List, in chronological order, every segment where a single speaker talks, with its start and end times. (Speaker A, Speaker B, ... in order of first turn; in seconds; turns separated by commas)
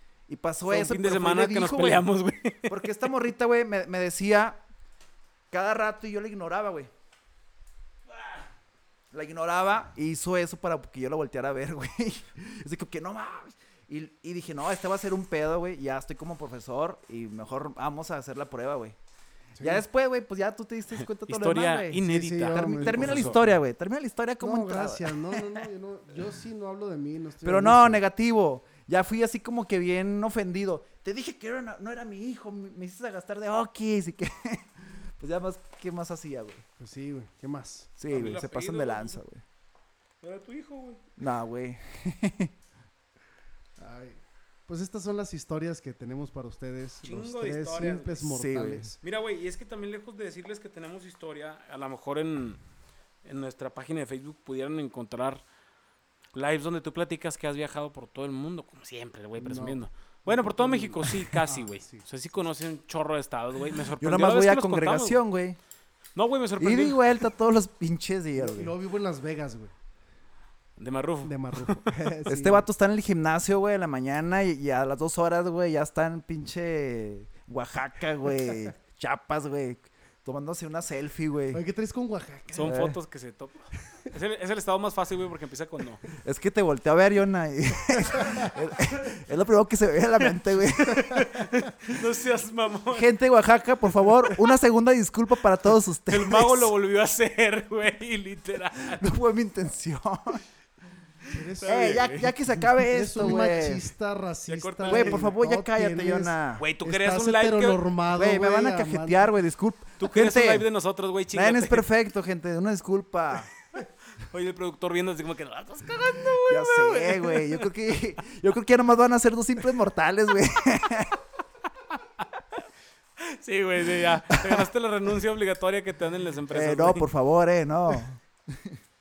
Speaker A: 0.3-2.1, Speaker B: 0.7-2.8, Speaker A: 2.7-4.6, Speaker A: 5.5-6.9, Speaker A: 9.1-19.0, Speaker C: 19.6-19.8, Speaker A: 19.6-25.4, Speaker B: 21.2-23.4, Speaker C: 21.9-23.5, Speaker C: 24.4-28.0, Speaker A: 27.4-36.6, Speaker C: 36.8-37.9, Speaker A: 38.0-39.4, Speaker B: 38.1-39.2, Speaker B: 40.2-41.0, Speaker A: 41.2-42.5, Speaker C: 43.8-49.0, Speaker B: 47.0-48.2, Speaker A: 48.2-48.9, Speaker B: 49.0-52.6, Speaker B: 53.2-55.4, Speaker B: 56.3-65.2, Speaker C: 59.4-62.1, Speaker A: 64.0-65.6, Speaker B: 66.2-67.0, Speaker A: 66.6-68.7, Speaker C: 68.4-69.7, Speaker B: 70.8-71.9, Speaker C: 71.2-72.7, Speaker A: 72.3-81.6, Speaker C: 81.5-82.8, Speaker B: 82.5-86.0, Speaker A: 82.6-83.0, Speaker A: 86.2-91.1, Speaker C: 88.1-88.5, Speaker B: 90.2-93.1, Speaker A: 92.9-96.7, Speaker B: 96.1-99.0, Speaker A: 99.0-100.4, Speaker C: 101.3-102.1, Speaker B: 101.6-102.3, Speaker A: 101.7-103.8, Speaker C: 102.7-109.3, Speaker B: 104.5-105.3, Speaker A: 104.9-106.6, Speaker B: 106.6-107.8, Speaker A: 108.1-110.7, Speaker B: 110.0-111.9, Speaker A: 111.3-113.5, Speaker B: 114.2-117.7, Speaker A: 116.4-121.2, Speaker B: 123.2-127.1, Speaker A: 124.3-124.7, Speaker A: 126.5-128.8